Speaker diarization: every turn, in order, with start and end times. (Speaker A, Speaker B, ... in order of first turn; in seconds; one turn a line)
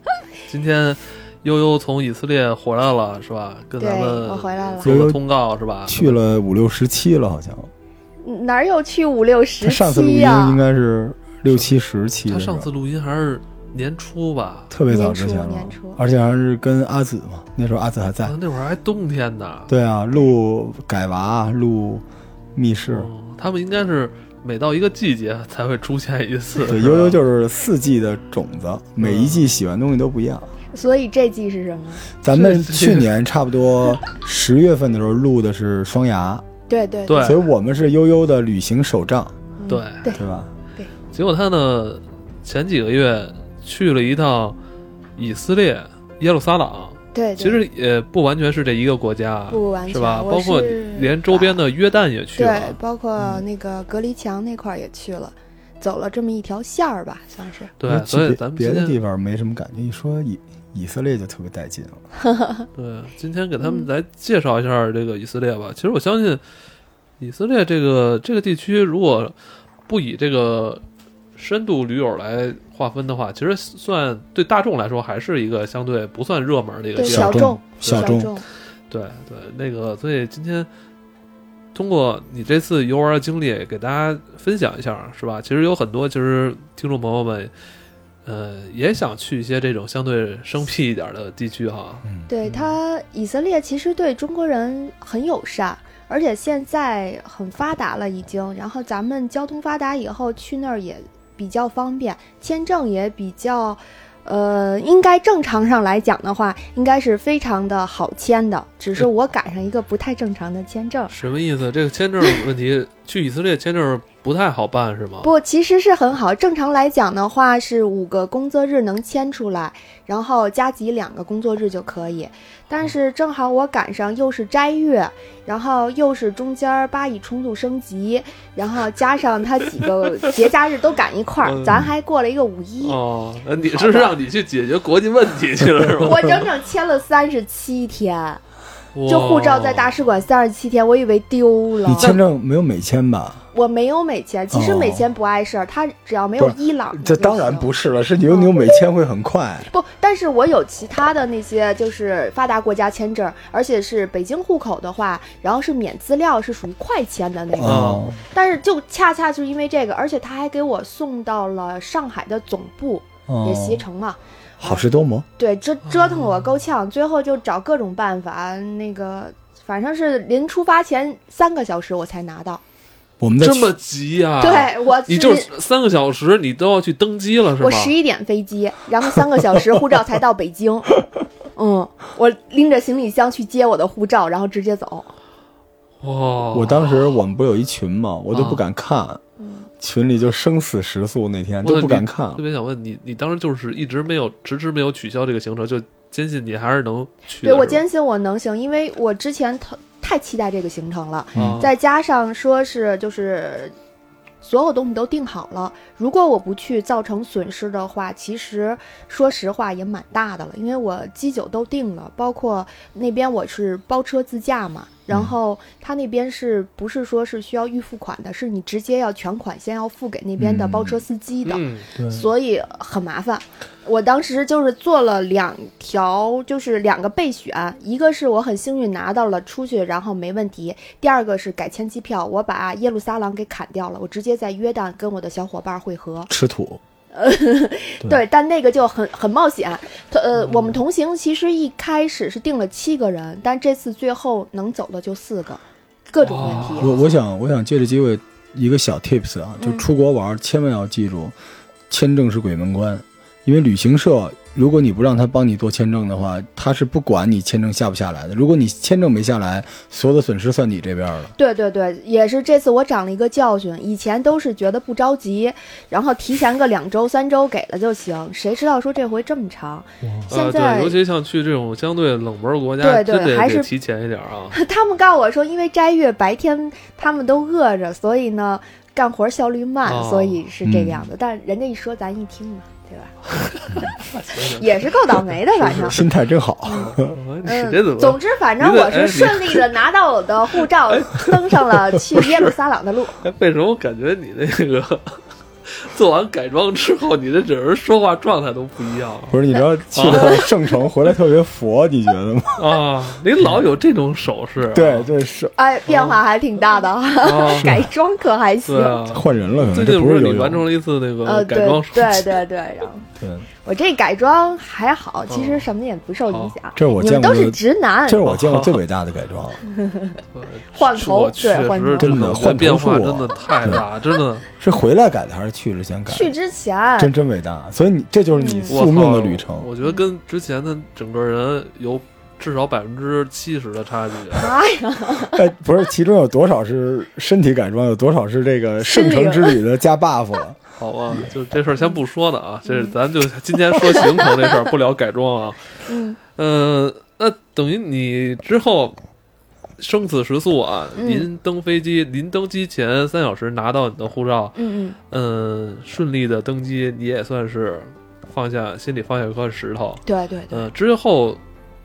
Speaker A: 0.5-6.1
Speaker B: 3.8-5.0
Speaker C: 4.8-5.2
Speaker C: 5.9-7.7
Speaker B: 8.2-10.6
Speaker C: 9.6-12.7
Speaker A: 11.5-11.7
Speaker A: 12.3-14.7
Speaker C: 14.7-18.3
Speaker B: 14.9-16.0
Speaker A: 18.2-19.7
Speaker C: 19.7-23.1
Speaker A: 22.9-27.2
Speaker C: 26.7-30.5
Speaker A: 29.0-29.5
Speaker B: 30.7-32.1
Speaker C: 32.2-36.4
Speaker A: 32.3-33.1
Speaker B: 36.7-37.4
Speaker A: 37.1-37.4
Speaker C: 37.2-39.3
Speaker B: 39.6-40.2
Speaker A: 39.7-40.0
Speaker C: 40.1-40.5
Speaker A: 41.1-44.6
Speaker A: 45.1-53.4
Speaker B: 47.1-47.6
Speaker B: 49.5-51.6
Speaker B: 52.4-57.7
Speaker A: 57.8-59.0
Speaker C: 57.9-62.0
Speaker B: 62.2-62.6
Speaker A: 62.7-66.4
Speaker B: 63.6-63.9
Speaker A: 67.2-69.3
Speaker A: 69.9-70.8
Speaker A: 71.3-78.2
Speaker B: 77.0-78.5
Speaker C: 77.0-78.3
Speaker A: 78.9-80.7
Speaker A: 81.7-87.5
Speaker A: 88.2-92.7
Speaker B: 92.3-111.1
Speaker A: 111.1-115.3
Speaker B: 115.2-133.0
Speaker A: 129.8-130.4
Speaker A: 131.4-131.8
Speaker C: 131.6-131.9
Speaker A: 132.8-136.4
Speaker B: 133.7-134.2
Speaker B: 136.0-138.4
Speaker A: 138.9-140.0
Speaker B: 139.1-142.2
Speaker C: 141.8-143.4
Speaker B: 143.5-147.7
Speaker C: 144.5-145.0
Speaker C: 146.4-149.7
Speaker B: 148.2-148.8
Speaker B: 149.7-164.8
Speaker C: 157.6-158.2
Speaker A: 157.6-158.1
Speaker C: 163.3-163.8
Speaker C: 164.6-165.3
Speaker B: 165.4-172.6
Speaker A: 165.9-166.4
Speaker C: 173.2-173.7
Speaker A: 173.4-177.9
Speaker B: 174.4-175.5
Speaker B: 177.6-181.0
Speaker B: 181.6-185.1
Speaker A: 186.0-187.1
Speaker C: 186.5-189.2
Speaker A: 188.3-188.6
Speaker B: 189.4-189.7
Speaker C: 189.8-192.4
Speaker A: 191.6-197.8
Speaker B: 197.4-203.7
Speaker C: 201.3-201.6
Speaker A: 201.3-201.7
Speaker B: 204.4-236.3
Speaker C: 215.1-215.3
Speaker C: 220.4-221.0
Speaker A: 221.4-221.9
Speaker C: 221.9-222.3
Speaker C: 236.3-236.8
Speaker B: 237.1-246.9
Speaker A: 240.4-240.8
Speaker A: 246.2-247.0
Speaker C: 246.6-251.3
Speaker B: 249.6-249.8
Speaker C: 251.9-261.3
Speaker B: 261.4-271.0
Speaker C: 270.0-270.3
Speaker A: 270.3-274.6
Speaker B: 272.8-273.7
Speaker B: 274.5-283.2
Speaker A: 279.8-280.4
Speaker C: 280.6-281.1
Speaker A: 283.5-285.4
Speaker B: 283.7-286.0
Speaker C: 285.6-287.2
Speaker B: 286.7-293.2
Speaker A: 286.7-289.8
Speaker A: 290.6-292.6
Speaker A: 293.2-299.4
Speaker C: 299.3-302.8
Speaker B: 299.6-300.5
Speaker A: 299.9-300.5
Speaker A: 302.6-305.1
Speaker C: 304.6-305.5
Speaker B: 305.6-309.1
Speaker A: 305.9-306.2
Speaker A: 307.2-307.8
Speaker C: 307.6-307.9
Speaker A: 308.6-312.4
Speaker C: 309.1-310.6
Speaker B: 311.2-313.1
Speaker C: 313.2-313.5
Speaker B: 313.6-318.3
Speaker A: 315.3-315.7
Speaker A: 316.2-316.5
Speaker C: 316.8-319.6
Speaker A: 318.2-318.8
Speaker B: 319.6-322.5
Speaker A: 320.3-324.5
Speaker C: 322.0-323.8
Speaker C: 324.6-326.3
Speaker B: 326.1-327.1
Speaker C: 327.0-329.7
Speaker B: 328.3-328.8
Speaker A: 328.7-334.5
Speaker B: 334.4-335.4
Speaker C: 335.2-340.6
Speaker B: 338.8-339.6
Speaker A: 340.8-345.8
Speaker B: 342.6-342.9
Speaker B: 343.9-344.2
Speaker B: 345.9-346.2
Speaker A: 346.3-349.0
Speaker A: 349.8-354.6
Speaker B: 350.9-351.3
Speaker B: 354.6-355.0
Speaker A: 355.1-361.4
Speaker B: 360.1-360.7